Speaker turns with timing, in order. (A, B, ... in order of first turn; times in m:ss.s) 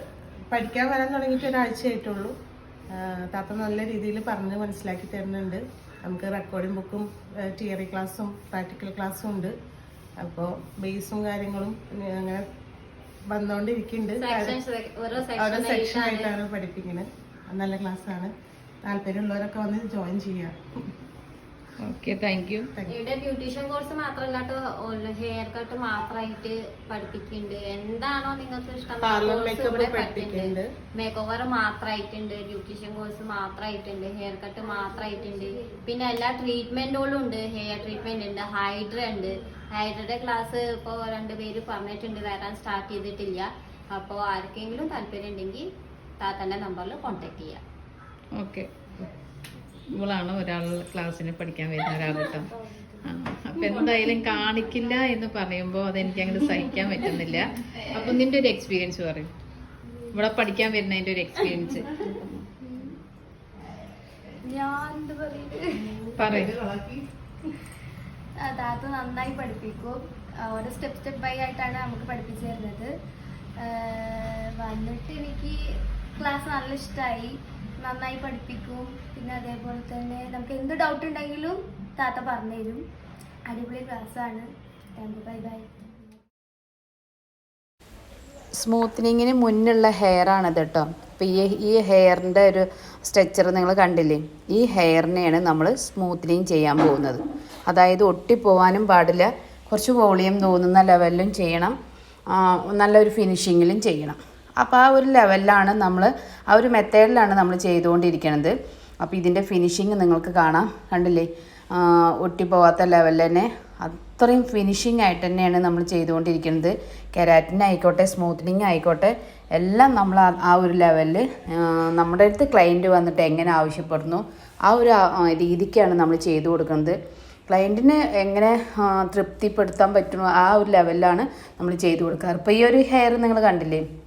0:00.5-0:02.3 A
0:02.9-0:09.5 A
0:10.2-0:12.4 A
0:13.3-0:14.6 A
0:14.2-0:16.3 B
0:15.2-0:18.3 A
0:18.8-0:20.6 A
0:21.8-0:22.7 C
0:22.9-0:45.6 B
0:29.0-0:30.7 A
0:46.2-0:47.6 B
0:48.4-0:48.7 C
0:49.9-0:52.5 C
0:52.3-0:53.1 D
0:53.0-0:59.3 C
0:53.7-0:54.1 D
1:00.1-1:00.3 D
1:00.1-1:01.9 C
1:01.6-1:02.9 D
1:04.4-1:06.0 D
1:06.2-1:06.6 C
1:08.4-1:12.9 D
1:13.6-1:15.6 D
1:16.2-1:22.8 D
1:23.5-1:26.2 D
1:28.6-1:41.7 E
1:42.3-2:07.0 E
2:07.5-2:13.8 E